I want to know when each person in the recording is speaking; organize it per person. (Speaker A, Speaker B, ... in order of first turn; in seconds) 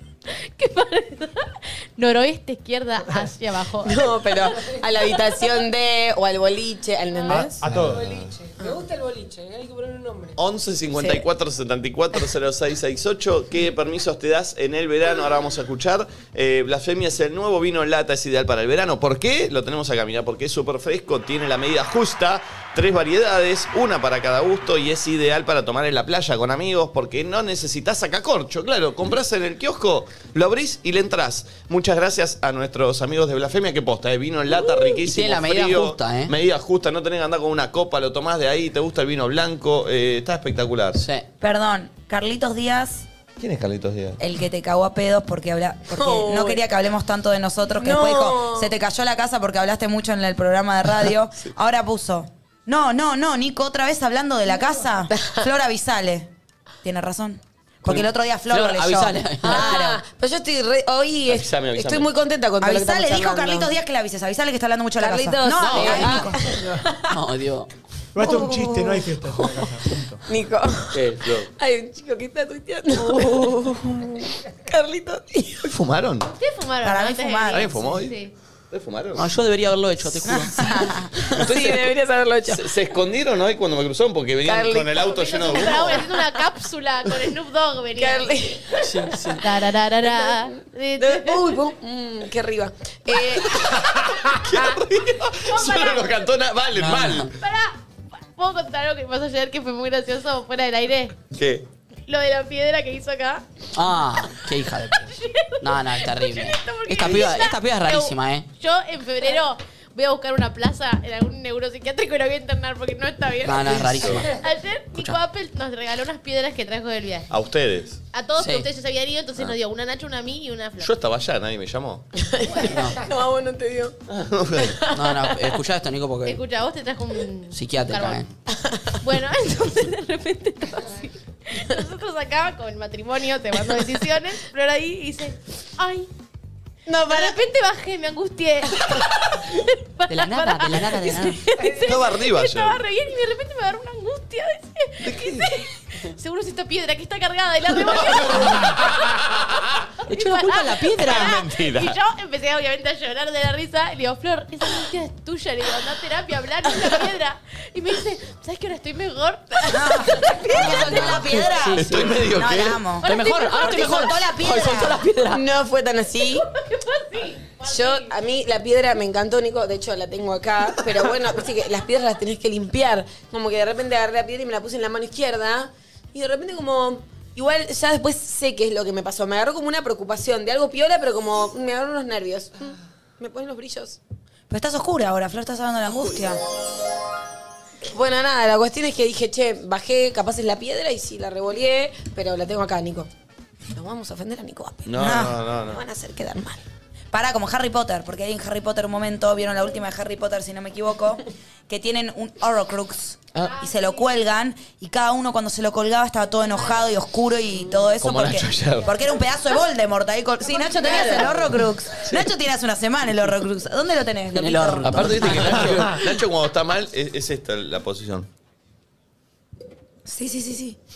Speaker A: 0.6-4.4, 5.0-5.6, 7.1-7.5, 76.2-78.3, 85.1-88.3, 89.4-91.5, 95.5-96.3, 97.4-97.7, 98.3-101.2, 102.1-103.4, 104.9-117.3, 118.1-120.9, 122.4-122.8, 126.2-128.2, 129.0-136.1, 137.0-149.2, 150.1-161.2, 163.1-163.7, 166.6-168.1, 203.4-204.0
Speaker B: 3.8-7.6, 10.9-11.2, 45.9-46.6, 47.7-48.7, 55.1-55.4, 59.4-63.7, 65.0-67.1, 68.2-69.0, 70.3-75.7, 81.3-82.7, 84.4-86.3, 88.0-89.3, 90.0-90.3, 91.0-94.0, 122.2-124.0, 124.6-125.5, 128.6-128.8, 136.9-137.3, 165.3-166.5, 167.6-184.0, 187.8-193.1, 193.7-196.6
Speaker C: 7.3-8.2, 68.1-70.2, 215.4-215.8
Speaker D: 7.6-8.3, 10.4-41.0, 43.4-44.2, 61.3-62.1, 70.9-71.5, 75.6-76.3, 77.5-78.1, 78.7-79.3, 81.3-81.9, 82.5-86.1, 93.6-97.3, 101.3-101.6, 113.6-114.3, 117.3-118.0, 120.8-122.0, 124.1-124.8, 141.8-142.8, 145.0-145.5, 147.9-149.6, 151.0-151.9, 161.8-162.8, 194.9-195.8, 208.0-208.9, 214.8-218.3
Speaker E: 7.8-10.4
Speaker F: 34.6-36.3, 41.0-41.2, 58.5-59.8, 65.5-66.3, 67.1-67.7, 73.2-73.4, 79.2-81.4, 88.8-89.4, 96.8-97.3, 103.7-105.0, 105.6-108.5, 113.4-114.3, 118.4-118.7, 122.6-123.0, 124.9-126.4, 127.5-128.3, 140.1-141.5, 150.1-151.4, 160.5-162.2, 163.0-165.4, 214.3-216.0
Speaker G: 41.4-43.1, 44.2-56.3, 56.8-60.0, 62.6-66.6, 76.8-77.7, 80.2-81.1, 159.7-165.0, 184.5-186.4, 195.0-195.3, 197.1-215.5, 220.1-220.8